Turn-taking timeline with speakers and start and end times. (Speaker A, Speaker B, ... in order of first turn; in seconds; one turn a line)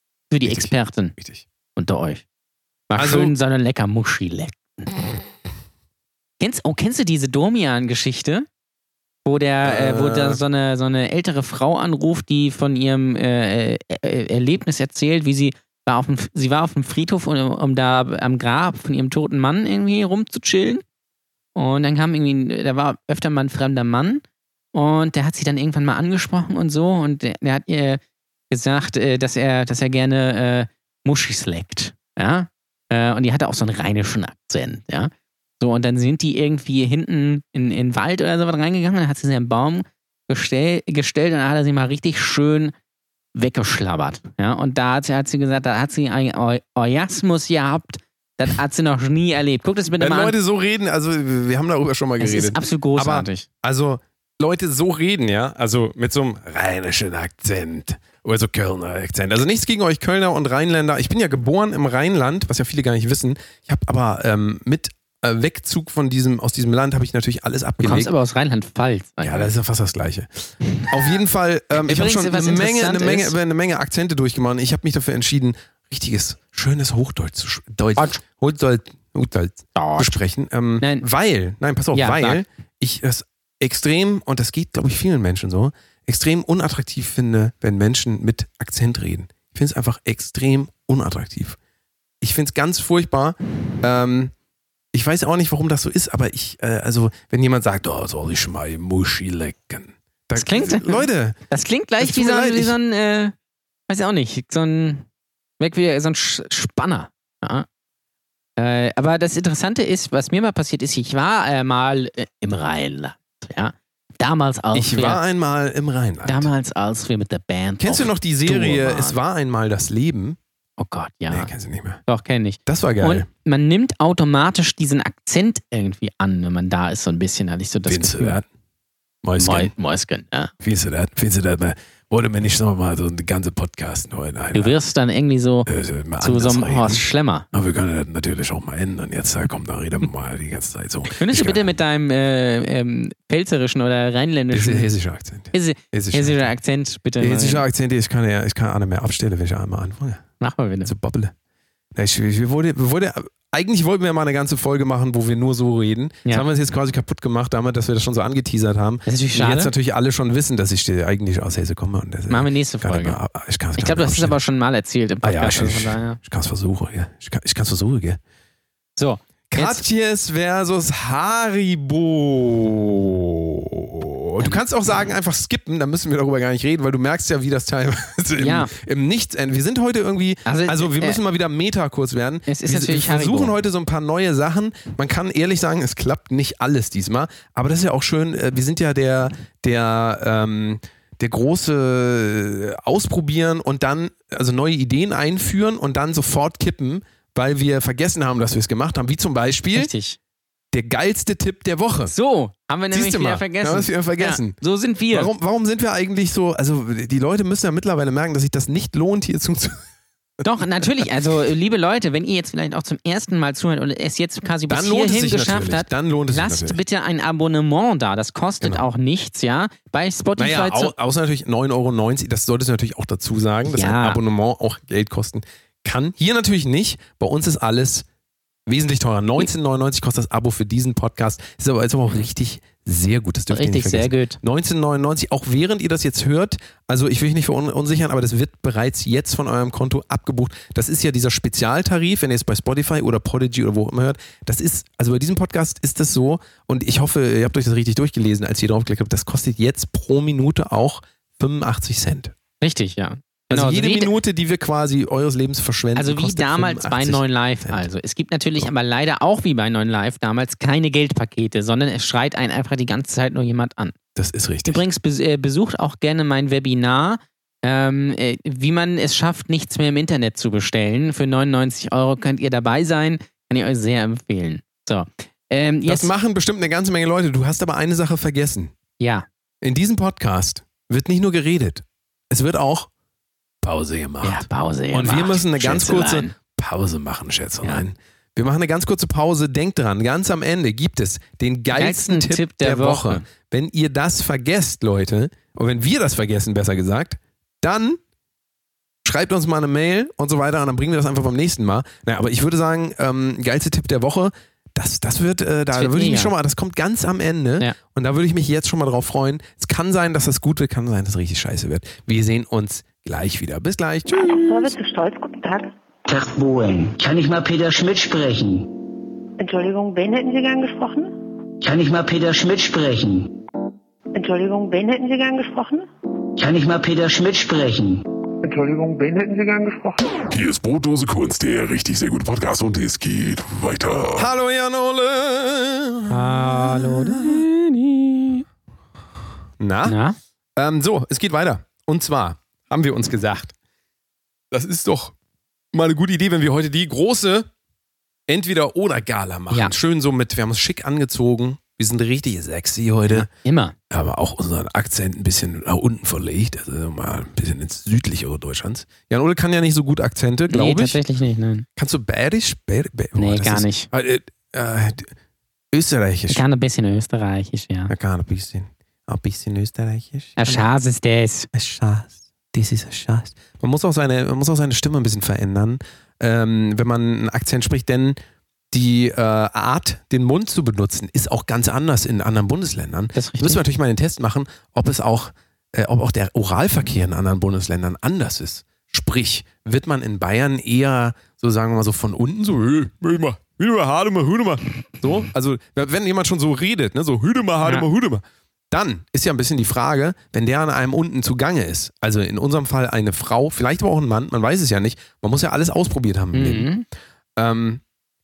Speaker A: 0.3-1.1
Speaker B: 0.4-1.4
Speaker A: 1.8-2.2
Speaker A: 2.9-4.9
Speaker B: 3.0-3.3
Speaker A: 6.4-8.4
Speaker A: 9.2-20.8
Speaker B: 9.6-10.4
Speaker A: 21.5-24.2
Speaker A: 24.7-42.7
Speaker A: 43.3-50.3
Speaker B: 50.0-68.1
Speaker A: 52.2-53.4
Speaker A: 67.8-69.5
Speaker B: 69.2-91.6
Speaker A: 71.8-73.3
Speaker A: 79.7-80.1
Speaker A: 81.9-82.4
Speaker B: 92.2-94.3
Speaker B: 94.9-101.4
Speaker A: 100.3-103.3
Speaker B: 102.0-102.7
Speaker A: 103.9-105.0
Speaker A: 105.6-107.7
Speaker A: 108.6-115.2
Speaker B: 114.7-116.5
Speaker A: 116.2-119.2
Speaker B: 117.8-120.4
Speaker A: 120.8-121.5
Speaker B: 121.3-122.0
Speaker A: 122.1-128.4
Speaker B: 122.7-123.3
Speaker B: 127.9-128.4
Speaker B: 129.2-129.7
Speaker A: 129.4-130.5
Speaker B: 130.6-134.8
Speaker A: 134.5-135.7
Speaker B: 135.7-141.7
Speaker A: 136.2-137.4
Speaker A: 141.1-144.9
Speaker B: 144.5-146.5
Speaker A: 145.5-147.6
Speaker B: 147.2-150.3
Speaker A: 150.4-150.9
Speaker B: 150.8-151.3
Speaker B: 151.9-164.4
Speaker A: 159.1-159.7
Speaker A: 162.3-163.2
Speaker A: 163.8-166.2
Speaker B: 165.2-168.2
Speaker A: 169.0-169.8
Speaker B: 169.5-199.9
Speaker A: 178.4-178.7
Speaker A: 180.4-181.2
Speaker A: 182.5-183.5
Speaker A: 199.7-200.2
Speaker B: 200.7-202.1
Speaker A: 202.1-205.3
Speaker B: 202.9-204.6
Speaker B: 205.1-209.8
Speaker A: 210.4-220.9
Speaker B: 214.7-216.8
Speaker B: 220.4-228.1
Speaker A: 223.7-224.2
Speaker B: 228.7-252.3
Speaker A: 233.5-234.4
Speaker A: 252.6-254.1
Speaker B: 253.5-257.9
Speaker A: 255.9-263.9
Speaker B: 264.1-264.8
Speaker A: 264.6-276.1
Speaker B: 275.9-278.7
Speaker A: 279.0-279.2
Speaker B: 279.6-282.9
Speaker B: 283.6-298.0
Speaker A: 284.2-286.3
Speaker A: 291.7-293.2
Speaker B: 299.0-314.8
Speaker A: 305.7-306.3
Speaker C: 314.1-315.7
Speaker D: 316.1-318.8
Speaker C: 319.4-321.1
Speaker D: 321.6-323.3
Speaker C: 324.1-325.9
Speaker D: 326.4-328.0
Speaker C: 328.4-330.3
Speaker E: 330.3-334.3
Speaker B: 334.1-337.4
Speaker A: 336.1-338.4
Speaker B: 339.6-340.0
Speaker A: 339.8-340.2
Speaker B: 340.6-343.5
Speaker B: 344.5-345.1
Speaker B: 345.7-347.5
Speaker B: 348.3-353.3
Speaker A: 353.1-353.7
Speaker B: 353.9-361.0
Speaker A: 360.5-361.6
Speaker B: 361.8-365.1
Speaker A: 363.2-363.9
Speaker B: 365.7-366.4
Speaker A: 366.3-367.9
Speaker B: 367.9-370.7
Speaker A: 370.4-371.5
Speaker B: 371.5-378.2
Speaker B: 378.7-406.7
Speaker A: 383.1-383.6
Speaker A: 406.3-406.8
Speaker B: 407.4-407.8